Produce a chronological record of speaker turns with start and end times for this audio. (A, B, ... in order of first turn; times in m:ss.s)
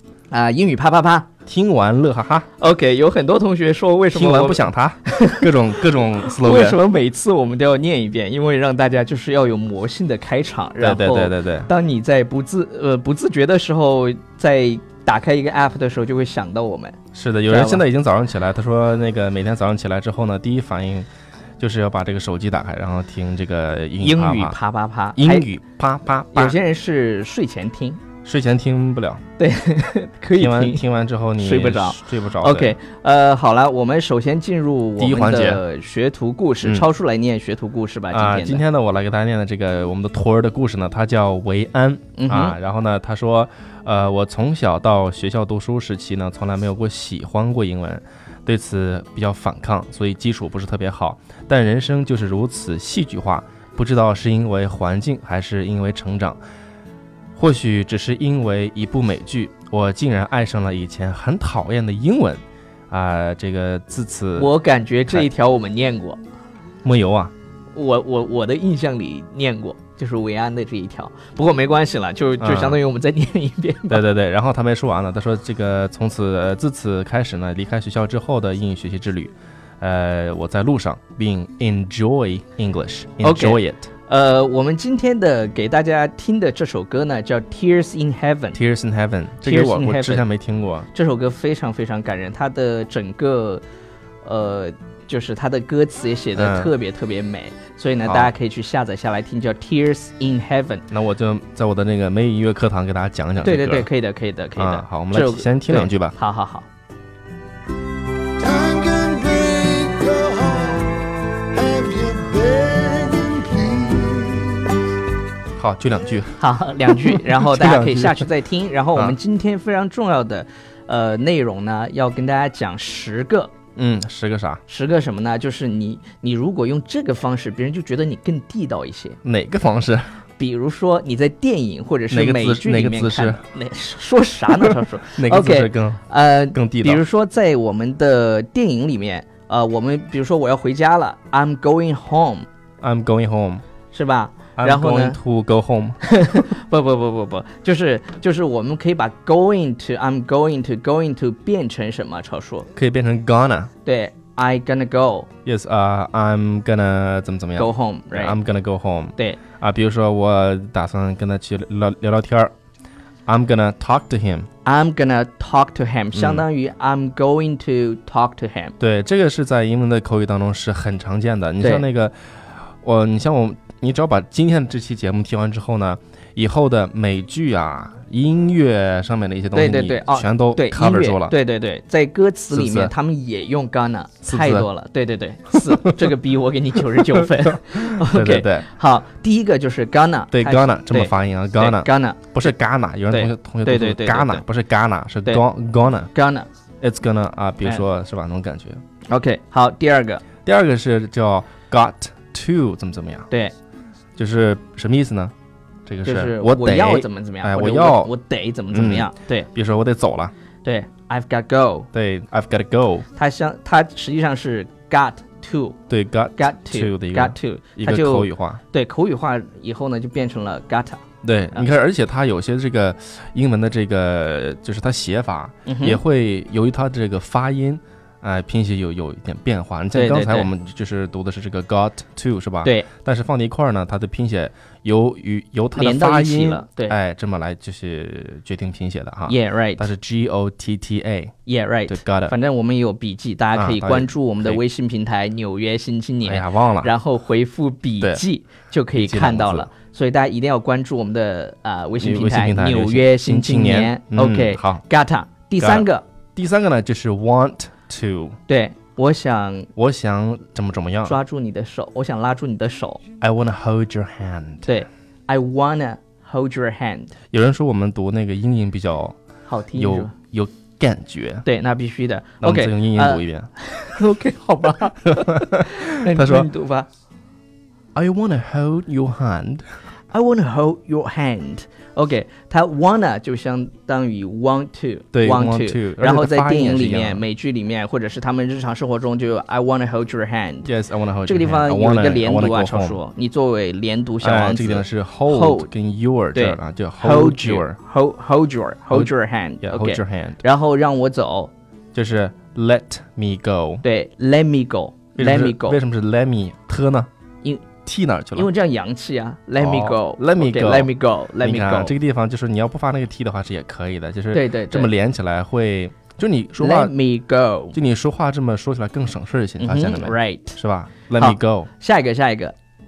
0:00.3-0:01.3 A
0:01.4-0:02.5 B
0:02.6-0:05.5 A
0:04.1-0:06.8 B
0:06.2-0:17.0 A
0:10.8-0:11.7 B
0:17.1-0:21.1 B
0:17.5-0:17.8 A
0:21.6-0:24.6 B
0:24.0-0:25.5 A
0:25.2-0:26.6 B
0:26.3-0:28.0 A
0:28.2-0:29.2 B
0:29.4-0:30.8 A
0:30.4-0:32.8 B
0:31.4-0:38.6 A
0:35.0-0:35.6 B
0:38.1-0:56.4 B
0:42.2-0:42.6 A
0:57.3-1:04.5 B
1:04.4-1:06.2 A
1:06.8-1:07.3 B
1:07.7-1:14.0 A
1:12.4-1:12.8 B
1:13.9-1:23.9 B
1:23.2-1:28.6 A
1:28.5-1:30.9 B
1:29.4-1:30.2 A
1:30.9-1:33.6 A
1:34.2-1:40.8 A
1:36.4-1:36.7 B
1:38.0-1:38.3 B
1:40.9-1:43.9 B
1:43.4-1:46.7 A
1:44.6-1:46.1 B
1:48.4-1:54.7 C
1:55.6-1:58.3 B
1:56.4-2:03.5 A
2:03.8-2:04.6 B
2:04.7-2:09.2 A
2:09.2-2:10.1 B
2:10.4-2:22.4 A
2:12.1-2:13.4 B
2:14.6-2:17.0 B
2:22.8-2:23.6 B
2:23.9-2:25.2 A
2:24.6-2:26.0 B
2:26.0-2:32.7 A
2:32.7-2:33.7 B
2:33.8-2:35.3 A
2:35.4-2:42.5 B
2:37.6-2:38.4 A
2:43.3-2:44.5 B
2:44.6-2:48.7 A
2:46.1-2:46.4 B
2:48.8-2:52.1 B
2:52.8-3:01.4 B
2:59.5-3:12.5 A
3:02.5-3:02.9 B
3:04.2-3:04.7 B
3:07.6-3:08.7 B
3:10.3-3:16.1 B
3:13.1-3:14.4 A
3:16.1-3:16.5 A
3:16.8-3:18.8 B
3:19.1-3:20.2 A
3:20.4-3:23.3 B
3:24.2-3:25.3 B
3:25.8-3:28.1 B
3:26.0-3:29.5 A
3:28.7-3:30.3 B
3:30.6-3:31.9 A
3:31.9-3:33.0 B
3:33.1-3:35.8 A
3:35.9-3:38.6 B
3:36.4-3:41.0 A
3:41.2-4:01.3 B
3:45.6-3:46.0 A
3:49.9-3:50.5 A
3:55.8-3:57.0 A
3:59.3-3:59.8 A
4:01.4-4:16.0 A
4:01.9-4:02.3 B
4:03.5-4:04.6 B
4:06.2-4:06.9 B
4:08.9-4:09.7 B
4:12.0-4:14.8 B
4:15.6-4:18.4 B
4:18.5-4:19.7 A
4:19.8-4:21.1 B
4:21.0-4:23.0 A
4:23.2-4:24.7 B
4:24.6-4:27.1 A
4:27.3-4:29.1 B
4:29.5-4:30.1 A
4:29.7-4:31.4 B
4:31.4-4:36.9 A
4:32.4-4:33.5 B
4:35.1-4:36.5 B
4:37.9-4:39.6 B
4:40.1-4:50.7 A
4:45.1-4:47.2 B
4:50.6-4:53.0 B
4:51.2-4:55.7 A
4:54.2-4:57.8 B
4:56.3-5:01.5 A
4:58.9-5:00.4 B
5:01.9-5:03.8 B
5:03.8-5:05.8 A
5:05.2-5:07.1 B
5:07.8-5:08.5 B
5:08.3-5:11.9 A
5:09.6-5:16.9 B
5:14.3-5:14.9 A
5:16.6-5:17.8 A
5:17.7-5:21.7 B
5:19.6-5:20.6 A
5:21.2-5:22.5 A